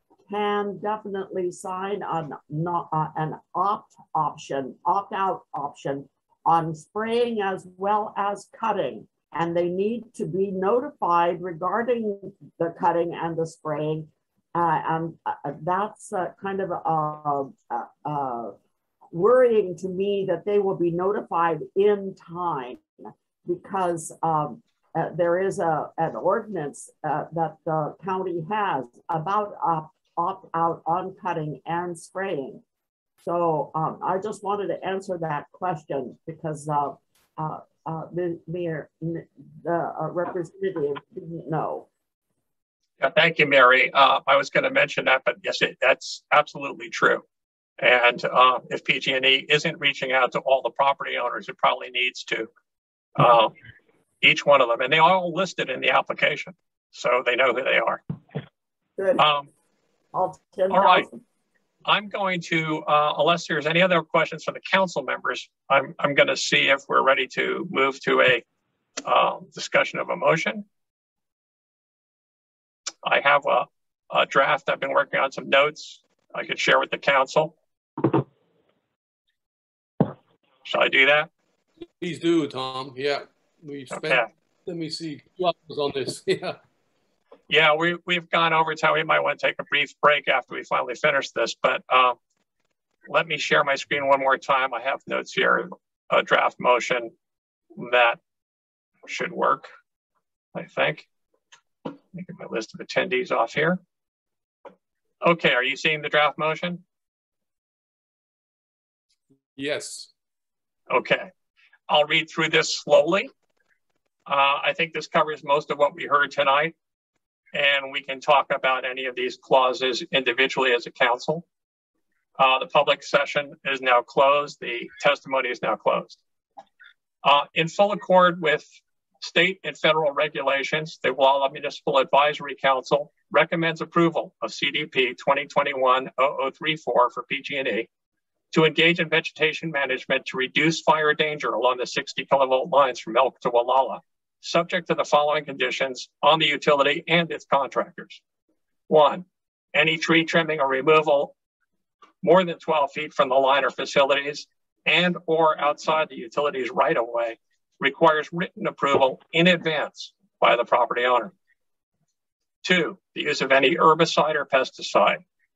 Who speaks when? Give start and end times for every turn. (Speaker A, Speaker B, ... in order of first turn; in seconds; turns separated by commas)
Speaker A: 0.3-18.5, Speaker A: 19.1-22.9, Speaker A: 23.4-32.6, Speaker A: 33.2-41.9, Speaker B: 43.0-47.2, Speaker B: 47.8-52.5, Speaker B: 53.2-53.5, Speaker B: 54.2-58.0, Speaker A: 59.0-59.2, Speaker B: 59.2-59.5, Speaker A: 60.1-61.2, Speaker B: 60.7-61.1, Speaker B: 61.9-68.4, Speaker B: 69.0-70.7, Speaker B: 73.0-77.5, Speaker B: 80.7-81.3, Speaker C: 82.0-86.6, Speaker B: 83.9-84.3, Speaker B: 87.5-92.2, Speaker B: 93.1-97.1, Speaker B: 97.8-98.2, Speaker B: 99.1-99.7, Speaker B: 100.5-101.1, Speaker B: 102.1-103.8, Speaker B: 105.2-106.8, Speaker C: 109.6-110.1, Speaker B: 110.9-111.3, Speaker B: 111.9-113.3, Speaker B: 114.3-116.7, Speaker B: 117.5-121.5, Speaker B: 122.4-126.2, Speaker B: 127.2-128.7, Speaker B: 129.2-137.9, Speaker B: 138.5-148.2, Speaker B: 148.9-151.3, Speaker B: 152.2-161.3, Speaker B: 162.6-165.2